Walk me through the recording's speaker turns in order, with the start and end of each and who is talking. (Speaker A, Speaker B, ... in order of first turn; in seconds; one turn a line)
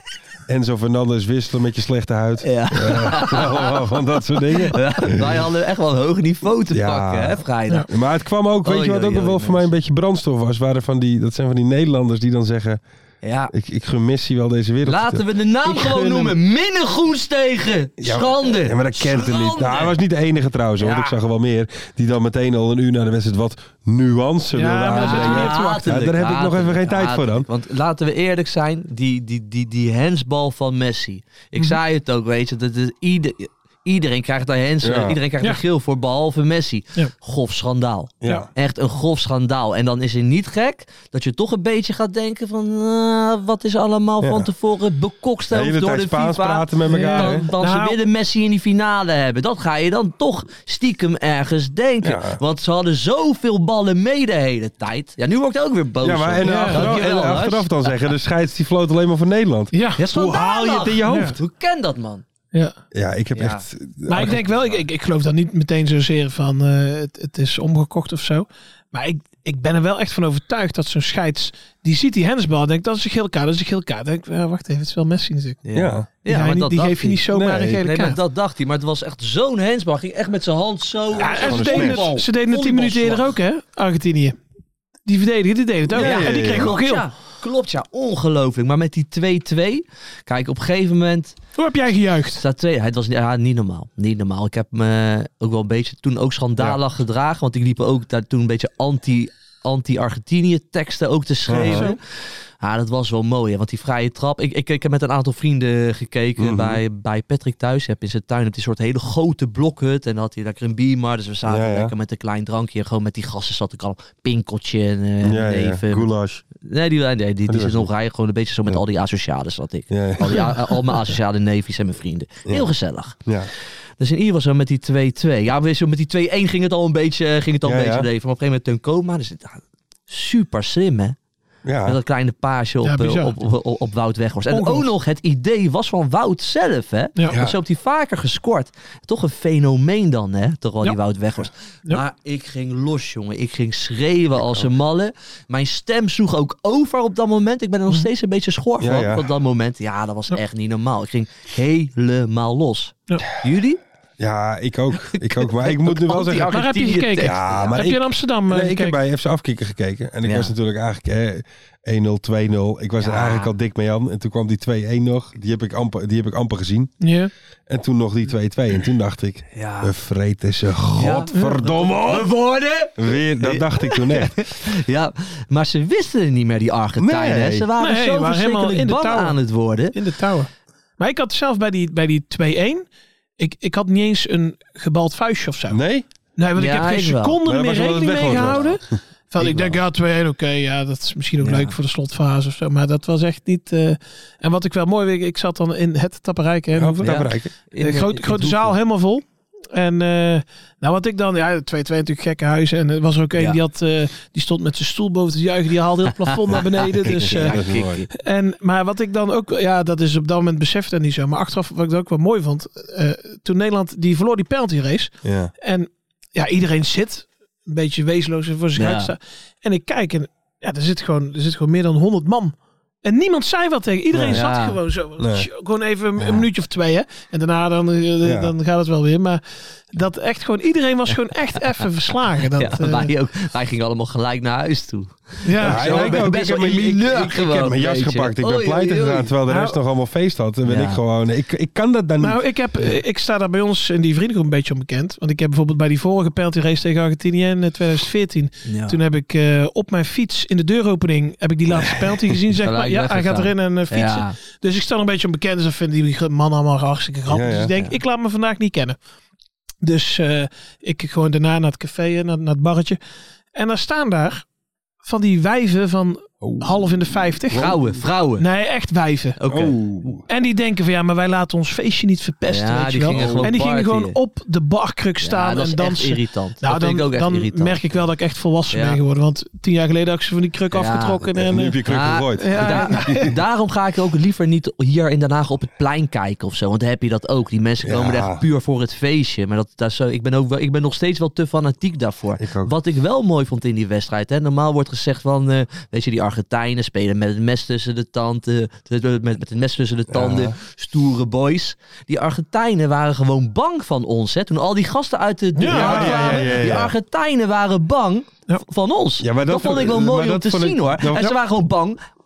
Speaker A: 0.5-5.4
Speaker B: 2.4-3.7
Speaker B: 4.7-7.9
Speaker A: 6.7-12.8
Speaker B: 8.6-9.7
Speaker B: 13.2-13.5
Speaker A: 13.5-16.4
Speaker B: 14.8-19.9
Speaker A: 18.0-27.5
Speaker B: 20.8-21.1
Speaker C: 24.5-25.9
Speaker B: 24.9-57.9
Speaker A: 34.8-35.2
Speaker A: 38.2-38.5
Speaker A: 44.2-44.5
Speaker A: 45.5-47.5
Speaker C: 46.9-48.0
Speaker A: 52.0-52.4
Speaker A: 56.0-61.4
Speaker C: 56.4-56.9
Speaker C: 59.7-60.0
Speaker B: 60.0-62.2
Speaker C: 61.0-61.4
Speaker A: 62.9-64.5
Speaker B: 63.3-63.6
Speaker C: 64.1-75.6
Speaker B: 75.6-77.3
Speaker A: 75.7-76.1
Speaker C: 76.2-78.2
Speaker A: 77.3-77.8
Speaker B: 77.8-83.3
Speaker C: 81.2-84.4
Speaker A: 81.2-82.1
Speaker C: 85.0-87.1
Speaker A: 85.9-86.7
Speaker B: 85.9-91.4
Speaker C: 91.5-92.4
Speaker B: 92.4-123.2
Speaker A: 101.5-101.9
Speaker C: 101.6-102.0
Speaker A: 106.4-106.8
Speaker A: 111.4-111.9
Speaker A: 115.2-116.4
Speaker A: 117.5-117.9
Speaker A: 119.9-120.5
Speaker B: 124.0-131.2
Speaker A: 127.6-128.1
Speaker A: 131.6-132.0
Speaker B: 131.8-153.8
Speaker C: 132.8-133.3
Speaker C: 134.5-134.9
Speaker A: 137.3-137.6
Speaker A: 144.4-144.7
Speaker A: 148.8-149.3
Speaker A: 154.2-156.6
Speaker B: 155.1-157.9
Speaker C: 156.4-159.0
Speaker A: 157.2-166.9
Speaker B: 160.2-160.5
Speaker B: 163.0-163.5
Speaker C: 167.0-167.3
Speaker A: 167.7-172.3
Speaker B: 169.5-169.9
Speaker B: 170.9-179.9
Speaker A: 173.0-174.4
Speaker A: 177.0-177.7
Speaker C: 177.8-179.4
Speaker C: 179.9-182.9
Speaker C: 183.4-185.8
Speaker A: 185.7-186.0
Speaker C: 186.3-197.0
Speaker B: 186.6-187.4
Speaker A: 187.4-188.8
Speaker B: 188.2-188.7
Speaker A: 189.4-189.7
Speaker B: 191.4-191.8
Speaker A: 196.7-197.5
Speaker B: 197.0-198.7
Speaker C: 197.8-207.6
Speaker B: 203.3-203.6
Speaker B: 206.5-208.1
Speaker A: 207.0-208.0
Speaker C: 208.2-229.4
Speaker A: 215.2-215.5
Speaker B: 218.8-219.1
Speaker B: 224.3-224.8
Speaker A: 225.2-225.5
Speaker A: 226.2-226.4
Speaker A: 228.2-228.5
Speaker C: 229.9-233.1
Speaker B: 231.1-231.6
Speaker B: 232.5-239.3
Speaker C: 235.4-236.2
Speaker A: 235.6-242.4
Speaker C: 239.5-239.8
Speaker B: 240.7-241.0
Speaker C: 242.2-259.0
Speaker B: 248.7-249.0
Speaker B: 252.6-254.3
Speaker A: 257.3-257.7
Speaker C: 259.8-263.0
Speaker C: 263.5-264.4
Speaker C: 265.0-267.8
Speaker A: 266.4-266.8
Speaker B: 267.5-268.4
Speaker C: 268.4-269.4
Speaker B: 269.4-269.8
Speaker A: 269.5-270.2
Speaker C: 270.3-281.8
Speaker B: 272.5-274.2
Speaker A: 273.1-273.5
Speaker B: 275.2-278.0
Speaker B: 278.7-279.0
Speaker B: 280.7-281.2
Speaker A: 281.3-283.3
Speaker B: 281.8-312.0
Speaker C: 282.4-283.3
Speaker A: 287.8-288.4
Speaker A: 292.4-292.7
Speaker A: 300.1-300.5
Speaker C: 305.6-306.5
Speaker A: 305.6-306.9
Speaker A: 309.2-311.2